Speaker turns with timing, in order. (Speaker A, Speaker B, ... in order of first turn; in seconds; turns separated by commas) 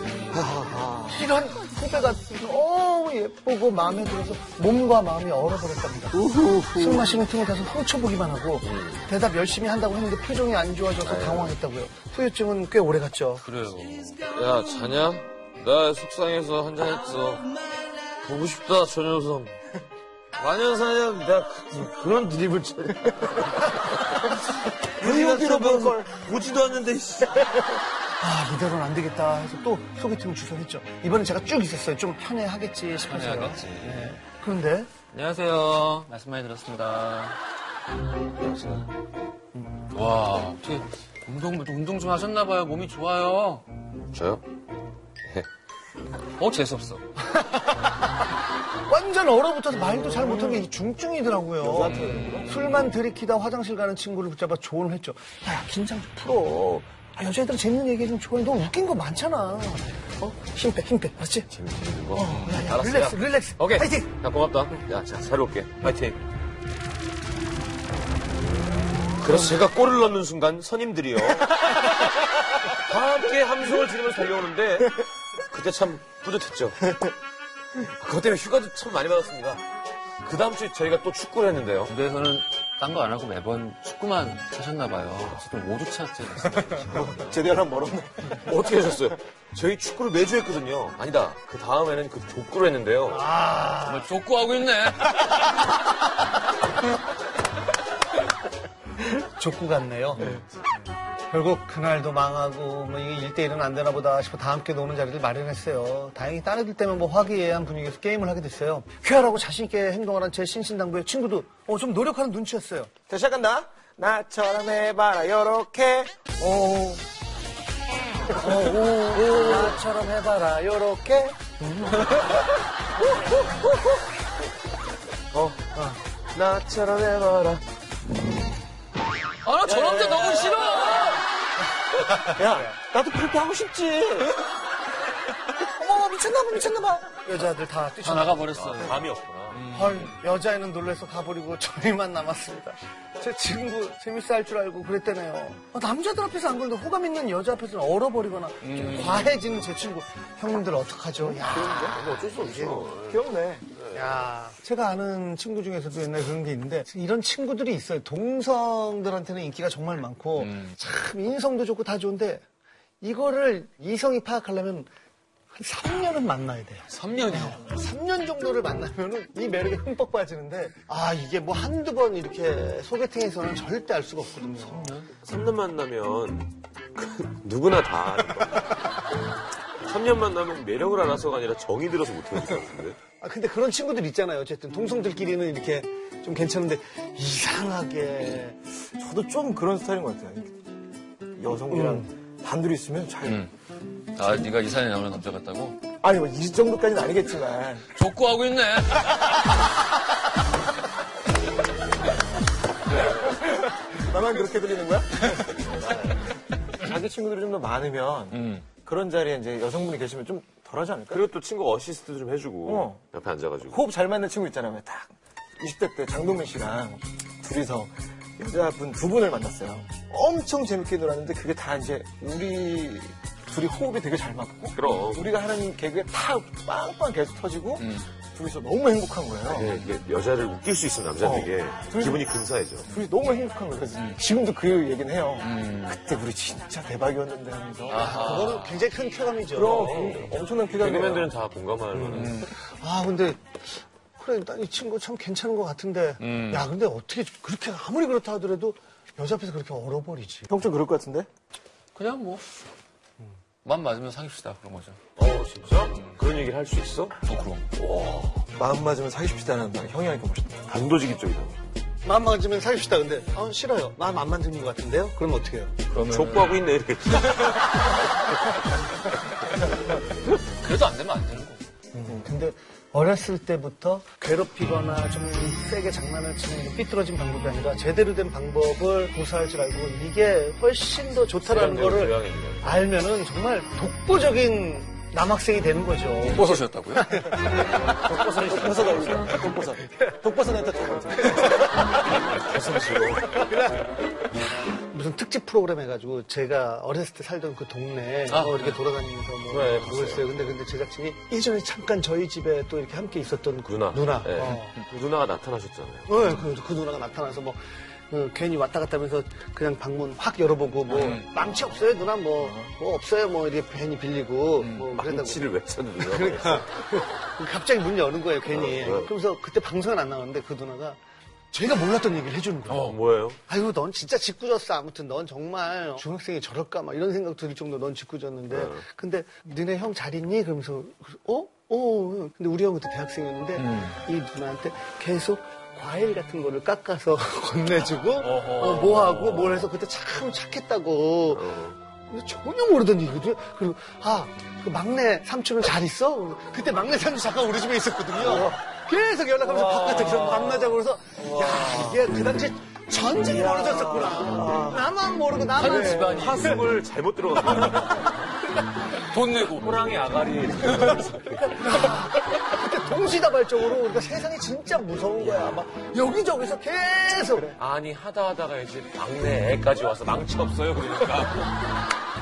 Speaker A: 0.3-1.2, Speaker B: 1.1-13.4, Speaker A: 6.1-7.1, Speaker C: 8.6-9.0, Speaker C: 11.0-11.6, Speaker D: 13.4-14.3, Speaker C: 14.2-17.6, Speaker C: 18.2-19.6, Speaker C: 20.4-24.3, Speaker A: 25.0-26.3, Speaker D: 25.0-26.0, Speaker C: 25.0-27.5, Speaker B: 28.2-34.9, Speaker D: 33.0-34.1, Speaker D: 35.1-37.4, Speaker C: 38.4-38.9, Speaker D: 39.9-43.6, Speaker C: 44.1-44.4, Speaker D: 46.4-47.0, Speaker B: 47.3-48.2, Speaker B: 48.8-61.5, Speaker D: 50.1-50.6, Speaker A: 51.6-52.5, Speaker D: 51.9-52.8, Speaker C: 61.5-66.2, Speaker B: 62.1-64.1, Speaker C: 69.2-76.9, Speaker C: 77.8-79.6, Speaker C: 80.2-81.9, Speaker D: 81.9-87.4, Speaker A: 86.9-88.4, Speaker C: 88.4-93.2, Speaker B: 93.1-94.1, Speaker D: 93.8-95.5, Speaker B: 99.1-100.4, Speaker B: 101.3-112.9, Speaker A: 113.1-117.0, Speaker B: 118.3-122.3, Speaker C: 119.2-119.7, Speaker C: 123.1-123.9, Speaker C: 125.3-125.7, Speaker C: 126.3-127.6, Speaker D: 129.4-131.3, Speaker C: 129.7-130.8, Speaker A: 132.1-134.4, Speaker B: 135.8-138.5, Speaker A: 135.8-137.0, Speaker D: 138.0-140.2, Speaker C: 138.5-139.7, Speaker B: 139.7-152.8, Speaker D: 148.6-149.4, Speaker A: 151.3-153.7, Speaker C: 151.9-153.2, Speaker B: 153.9-162.4, Speaker D: 160.4-160.8, Speaker B: 163.0-164.9, Speaker B: 165.5-175.0, Speaker D: 166.9-167.6, Speaker D: 174.7-175.1, Speaker C: 175.2-178.9, Speaker C: 179.8-183.0, Speaker B: 183.2-188.6, Speaker A: 188.9-190.6, Speaker A: 191.3-193.5, Speaker B: 191.7-192.0, Speaker D: 194.1-195.8, Speaker A: 196.0-197.9, Speaker D: 197.9-199.7, Speaker A: 203.0-206.2, Speaker A: 206.7-211.2, Speaker D: 208.4-208.6, Speaker C: 211.1-213.8, Speaker A: 212.6-213.0, Speaker A: 213.6-229.8, Speaker C: 224.7-225.3, Speaker D: 227.8-228.1, Speaker C: 229.5-232.9, Speaker A: 231.2-232.3, Speaker A: 232.8-238.5, Speaker D: 235.4-236.0, Speaker D: 237.9-238.8, Speaker B: 237.9-239.9, Speaker A: 239.5-241.3, Speaker C: 239.6-242.5, Speaker B: 241.9-250.5, Speaker D: 242.1-242.5, Speaker D: 246.2-246.7, Speaker A: 250.5-251.3, Speaker D: 251.9-252.4, Speaker D: 253.6-255.1, Speaker C: 255.2-257.2, Speaker D: 257.2-257.8, Speaker C: 257.9-258.4, Speaker A: 258.5-260.7, Speaker C: 260.7-261.6, Speaker B: 262.0-265.7, Speaker D: 265.9-266.6, Speaker C: 266.0-268.4, Speaker D: 270.2-271.6, Speaker B: 271.9-287.7, Speaker C: 281.4-282.9, Speaker D: 286.2-287.3, Speaker C: 287.7-289.4, Speaker A: 288.1-291.6, Speaker B: 291.5-291.8, Speaker C: 292.1-293.4, Speaker B: 293.3-293.8, Speaker B: 294.9-304.8, Speaker D: 298.3-298.8, Speaker C: 299.5-300.5, Speaker C: 303.6-306.1, Speaker D: 304.5-304.9, Speaker B: 306.1-315.4, Speaker D: 310.9-312.0, Speaker D: 314.6-314.9, Speaker C: 314.9-316.8, Speaker B: 316.0-321.0, Speaker C: 318.5-319.1, Speaker B: 321.5-322.9, Speaker D: 322.7-323.0, Speaker C: 322.8-323.4, Speaker B: 323.5-356.4, Speaker C: 328.5-328.8, Speaker D: 333.6-334.0, Speaker D: 338.2-339.7, Speaker C: 341.3-341.8, Speaker A: 348.2-348.6, Speaker D: 349.4-352.0, Speaker A: 353.2-354.8, Speaker D: 355.5-356.7, Speaker C: 356.0-358.2, Speaker D: 358.9-359.9, Speaker C: 359.5-361.6, Speaker D: 360.6-361.2, Speaker B: 361.5-367.5, Speaker C: 367.5-371.5